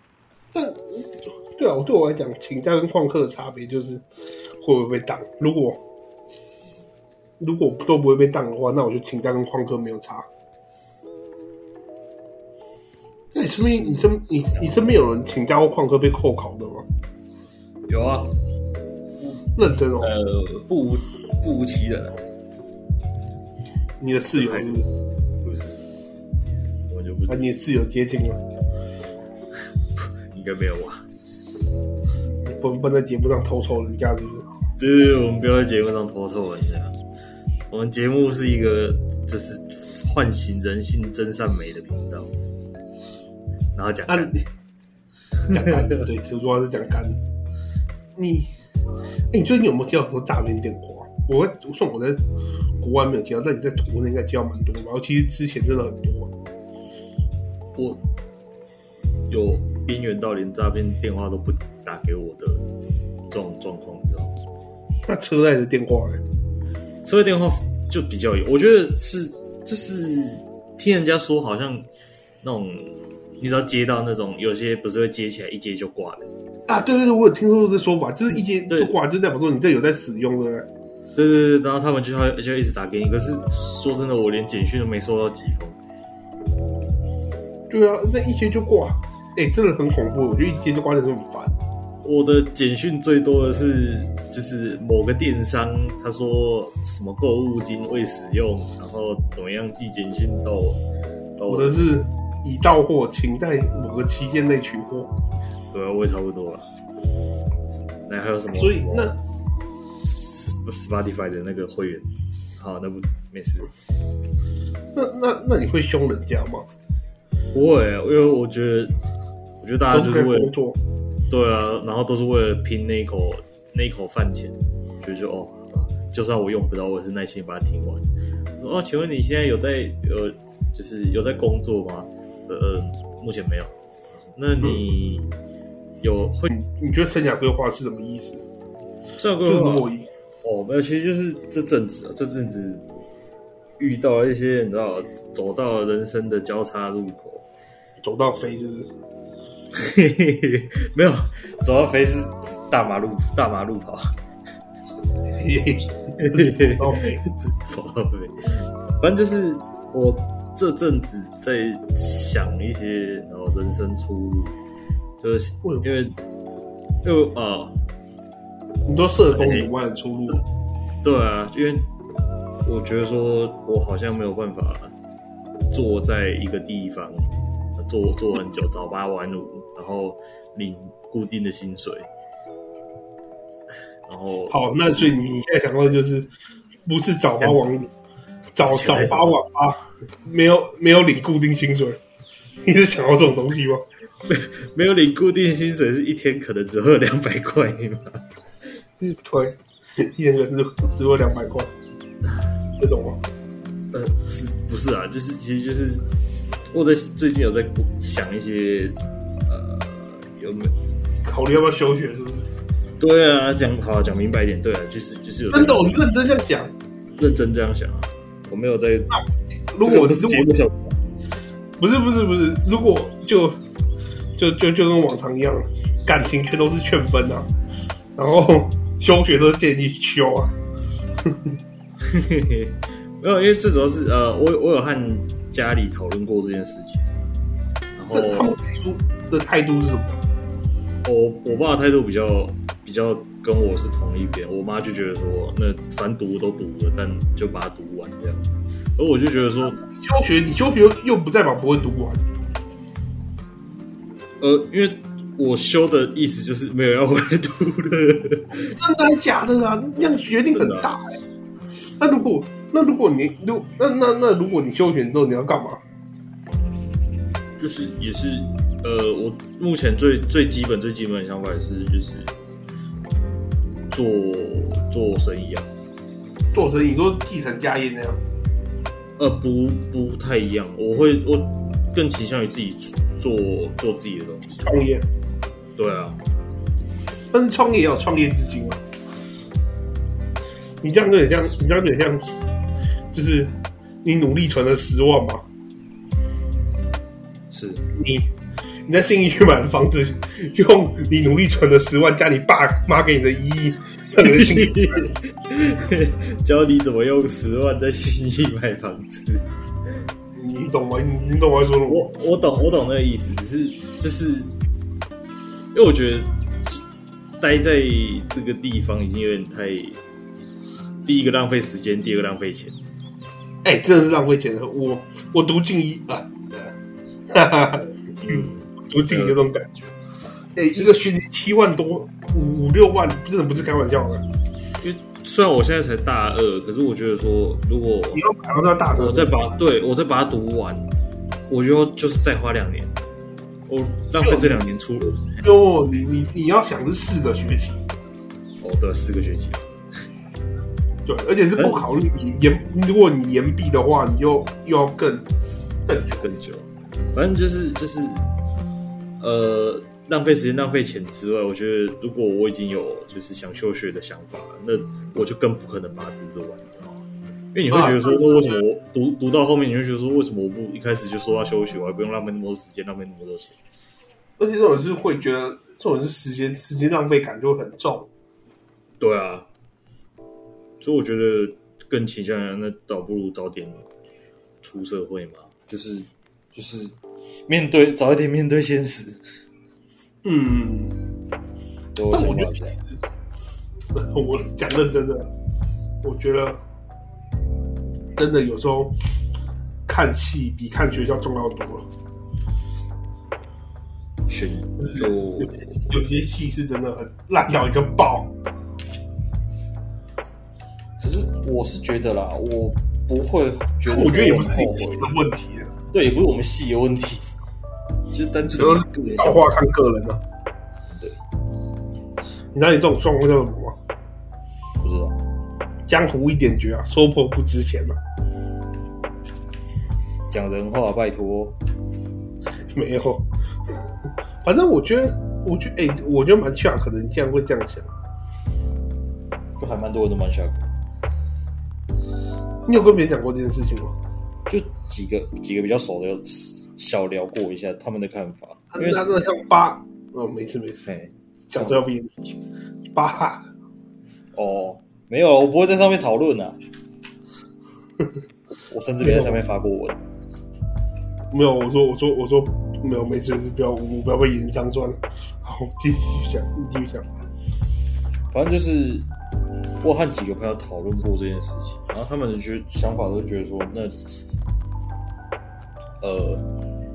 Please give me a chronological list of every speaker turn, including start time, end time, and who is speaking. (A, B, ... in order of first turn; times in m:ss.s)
0:00.5-0:04.0 A
0:04.6-0:05.8 A
0:07.4-0:10.3 A
0:13.3-0:16.9 A
0:13.4-0:14.8 B
0:17.9-0:18.3 B
0:19.6-0:20.1 A
0:20.0-0:22.2 B
0:24.0-0:24.9 A
0:24.4-0:24.8 B
0:25.4-0:25.8 B
0:26.9-0:27.4 B
0:27.3-0:28.4 A
0:30.0-0:31.0 B
0:32.4-0:34.5 A
0:34.8-0:37.0 B
0:37.7-0:42.3 B
0:43.7-0:44.3 B
0:44.1-0:44.4 A
0:45.5-0:47.2 A
0:48.2-0:48.5 A
0:49.3-0:52.2 A
0:52.8-0:56.3 A
0:57.8-0:58.0 B
0:59.3-1:02.6 B
1:03.3-1:04.3 B
1:05.1-1:06.2 A
1:07.0-1:11.9 B
1:12.4-1:16.3 B
1:16.7-1:20.7 A
1:21.2-1:25.8 B
1:27.7-1:31.6 A
1:32.0-1:40.8 B
1:41.4-1:41.8 B
1:41.5-1:45.1 A
1:45.7-1:46.7 B
1:48.1-1:49.2 B
1:48.5-1:49.2 A
1:50.0-1:53.7 B
1:54.9-1:56.7 A
1:57.5-1:59.0 B
1:59.6-2:00.5 B
1:59.9-2:00.8 A
2:01.3-2:08.1 B
2:08.6-2:13.7 B
2:14.3-2:15.3 B
2:16.0-2:16.5 B
2:16.5-2:18.4 A
2:19.2-2:19.9 B
2:19.5-2:20.1 A
2:20.4-2:22.8 B
2:23.8-2:27.5 B
2:28.0-2:28.9 A
2:29.7-2:34.2 B
2:35.4-2:37.2 A
2:36.2-2:44.6 B
2:45.2-2:46.2 B
2:47.0-2:47.8 B
2:48.9-2:50.4 A
2:49.3-2:49.7 B
2:51.0-2:51.9 B
2:52.6-2:54.9 B
2:55.7-3:02.1 B
3:04.1-3:05.2 B
3:04.5-3:06.3 A
3:06.9-3:07.9 A
3:08.6-3:12.0 A
3:08.6-3:09.3 B
3:12.6-3:13.8 A
3:14.3-3:18.2 B
3:19.0-3:21.7 A
3:22.8-3:23.2 A
3:23.9-3:26.1 B
3:26.7-3:30.7 B
3:31.2-3:32.5 A
3:33.0-3:36.0 B
3:35.5-3:36.7 A
3:37.2-3:39.2 B
3:39.1-3:40.5 A
3:39.8-3:41.0 B
3:41.8-3:43.6 A
3:44.4-3:47.5 A
3:48.2-3:50.6 A
3:51.2-3:51.6 A
3:52.0-3:57.1 B
3:58.0-3:58.6 B
3:58.1-4:00.2 A
4:01.0-4:09.8 B
4:09.8-4:12.2 A
4:14.4-4:18.8 B
4:18.7-4:21.1 A
4:20.5-4:20.9 B
4:22.0-4:25.8 A
4:27.6-4:32.3 B
4:33.9-4:35.7 B
4:36.5-4:38.2 A
4:39.2-4:44.7 B
4:44.6-4:45.1 A
4:45.8-4:46.2 B
4:47.3-4:48.8 A
4:50.8-4:52.4 A
4:53.1-4:55.4 A
4:57.5-4:57.8 B
4:57.9-4:58.3 A
4:58.9-5:05.1 A
5:04.2-5:09.4 B
5:10.4-5:12.1 A
5:11.9-5:14.5 B
5:15.7-5:16.8 B
5:17.4-5:20.0 B
5:21.0-5:22.8 B
5:23.6-5:26.7 A
5:27.3-5:29.9 A
5:28.2-5:29.4 B
5:30.6-5:34.2 A
5:34.8-5:38.2 B
5:38.1-5:39.4 A
5:38.9-5:40.9 B
5:41.5-5:42.9 B
5:43.7-5:45.4 B
5:44.2-5:44.7 A
5:45.4-5:47.8 A
5:48.6-5:49.7 B
5:51.0-5:55.3 A
5:51.6-5:51.9 B
5:55.9-5:56.3 A
5:56.2-5:58.2 B
5:59.2-6:13.6 B
6:07.7-6:08.6 A
6:14.4-6:18.1 A
6:19.0-6:19.5 B
6:20.8-6:23.8 B
6:24.6-6:27.0 B
6:27.5-6:29.2 B
6:30.2-6:31.0 A
6:32.0-6:32.8 B
6:32.1-6:33.0 A
6:33.9-6:35.3 A
6:36.0-6:36.6 A
6:38.2-6:39.0 A
6:39.9-6:41.9 A
6:44.3-6:45.8 B
6:44.9-6:48.3 A
6:51.0-6:55.1 B
6:53.8-6:55.7 A
6:55.9-6:57.3 B
6:58.1-6:59.6 B
6:58.5-7:00.2 A
7:00.9-7:01.2 B
7:02.5-7:03.8 A
7:04.8-7:05.2 B
7:05.9-7:08.0 A
7:10.3-7:11.6 B
7:12.7-7:13.3 A
7:14.4-7:17.9 A
7:19.6-7:20.6 B
7:22.7-7:24.0 A
7:24.5-7:29.0 B
7:28.7-7:30.8 A
7:30.9-7:31.8 B
7:31.5-7:32.4 A
7:32.9-7:33.5 A
7:34.3-7:36.6 B
7:38.7-7:40.0 B
7:39.0-7:39.4 A
7:41.3-7:47.1 A
7:48.3-7:49.1 B
7:49.8-7:54.0 B
7:56.0-7:56.4 B